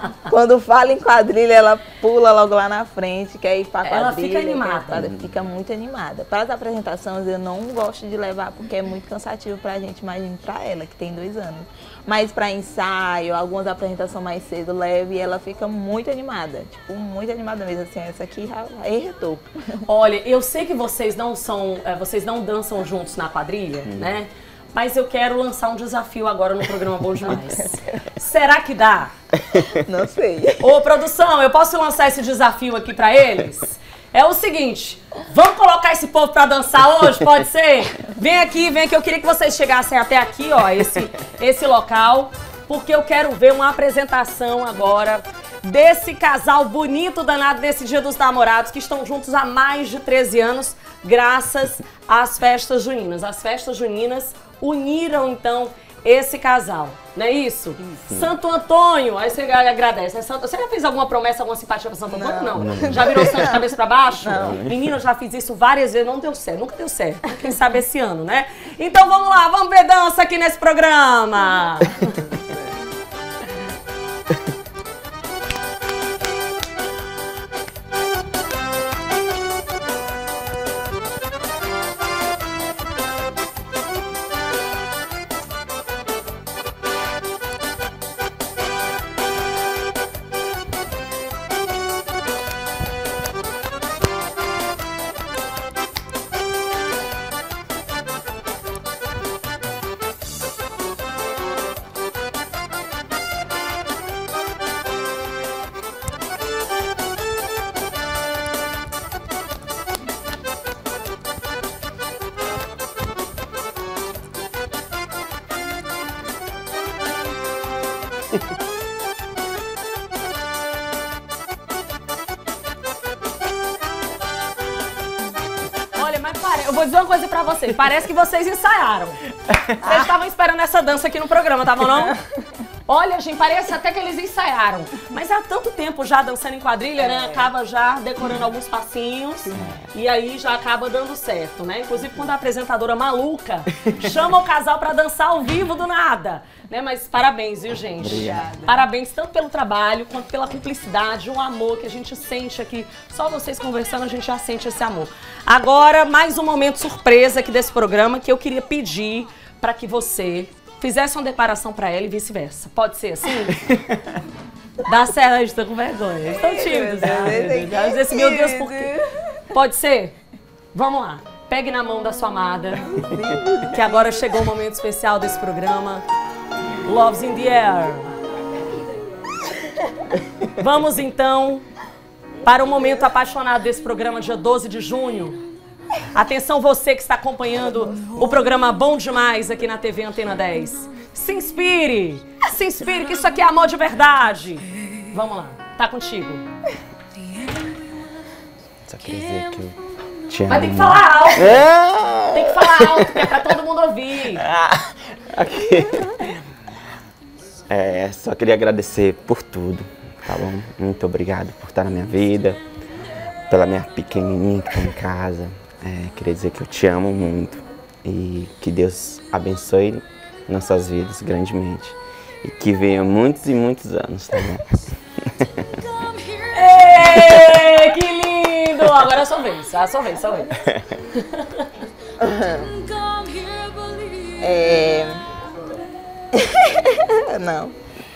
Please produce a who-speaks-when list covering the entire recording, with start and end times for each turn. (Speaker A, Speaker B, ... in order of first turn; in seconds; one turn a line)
Speaker A: 0.3-19.9
Speaker B: 3.8-5.1
Speaker C: 4.9-5.3
Speaker B: 19.9-29.1
Speaker C: 23.9-24.1
Speaker A: 29.6-30.7
Speaker B: 30.6-72.4
Speaker C: 58.1-58.4
Speaker A: 62.1-64.6
Speaker C: 62.5-63.5
Speaker C: 64.2-65.0
Speaker B: 126.0-132.2
Speaker B: 132.9-163.7
Speaker A: 137.0-137.5
Speaker C: 139.5-139.9
Speaker C: 148.0-148.6
Speaker A: 148.2-148.8
Speaker C: 163.6-164.0
Speaker B: 164.8-169.0
Speaker A: 166.3-169.3
Speaker B: 169.5-170.2
Speaker B: 170.7-176.0
Speaker A: 172.9-174.3
Speaker B: 176.8-178.1
Speaker B: 180.5-181.7
Speaker B: 182.4-185.4
Speaker B: 186.1-196.5
Speaker C: 198.9-203.4
Speaker B: 200.5-201.7
Speaker B: 202.3-204.5
Speaker C: 204.4-206.4
Speaker C: 207.7-212.6
Speaker C: 213.5-225.7
Speaker B: 226.3-231.9
Speaker A: 232.2-232.9
Speaker A: 234.3-235.2
Speaker A: 236.3-237.8